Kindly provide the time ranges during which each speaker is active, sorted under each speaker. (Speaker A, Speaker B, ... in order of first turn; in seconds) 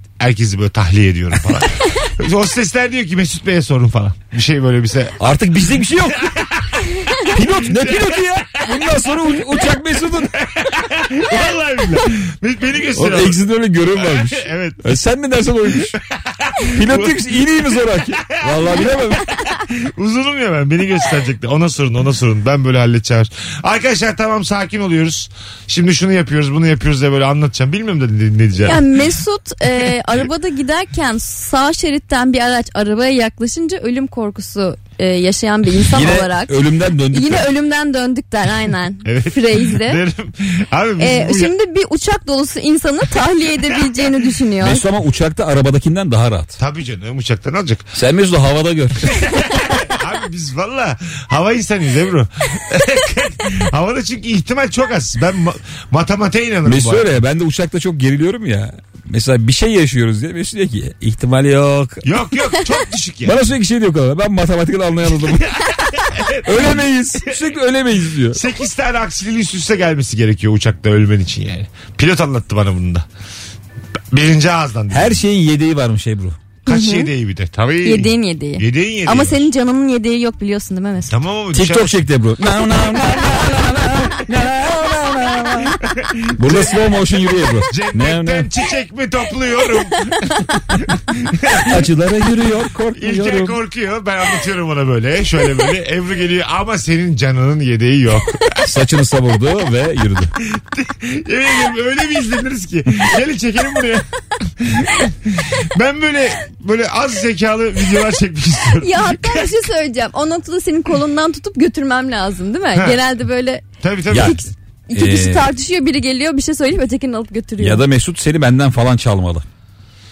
Speaker A: 0.2-5.2, 6.2-8.8, 10.4-13.4, 14.0-14.8, 16.2-17.2, 18.3-18.9, 19.5-28.9, 39.0-41.5, 46.6-47.9, 49.1-57.1, 62.0-63.4, 65.3-66.9, 68.3-73.1, 74.1-75.2, 76.7-79.5, 81.1-82.0, 83.2-83.5, 85.8-87.0, 87.7-91.8, 93.0-98.7, 100.5-109.5, 112.7-113.0, 113.8-114.4
Speaker B: 5.2-6.7, 7.2-10.4, 12.9-16.0, 16.7-19.3, 35.9-37.5, 44.6-46.6, 48.0-49.2, 56.7-62.0, 63.2-68.4, 74.9-76.4, 81.5-85.8, 86.3-88.5, 91.6-93.6, 98.6-100.3, 114.1-114.4, 114.9-115.4, 117.6-119.5
Speaker C: 28.6-36.6, 37.1-40.0, 41.0-44.8, 76.7-77.1, 77.8-81.1, 108.7-117.8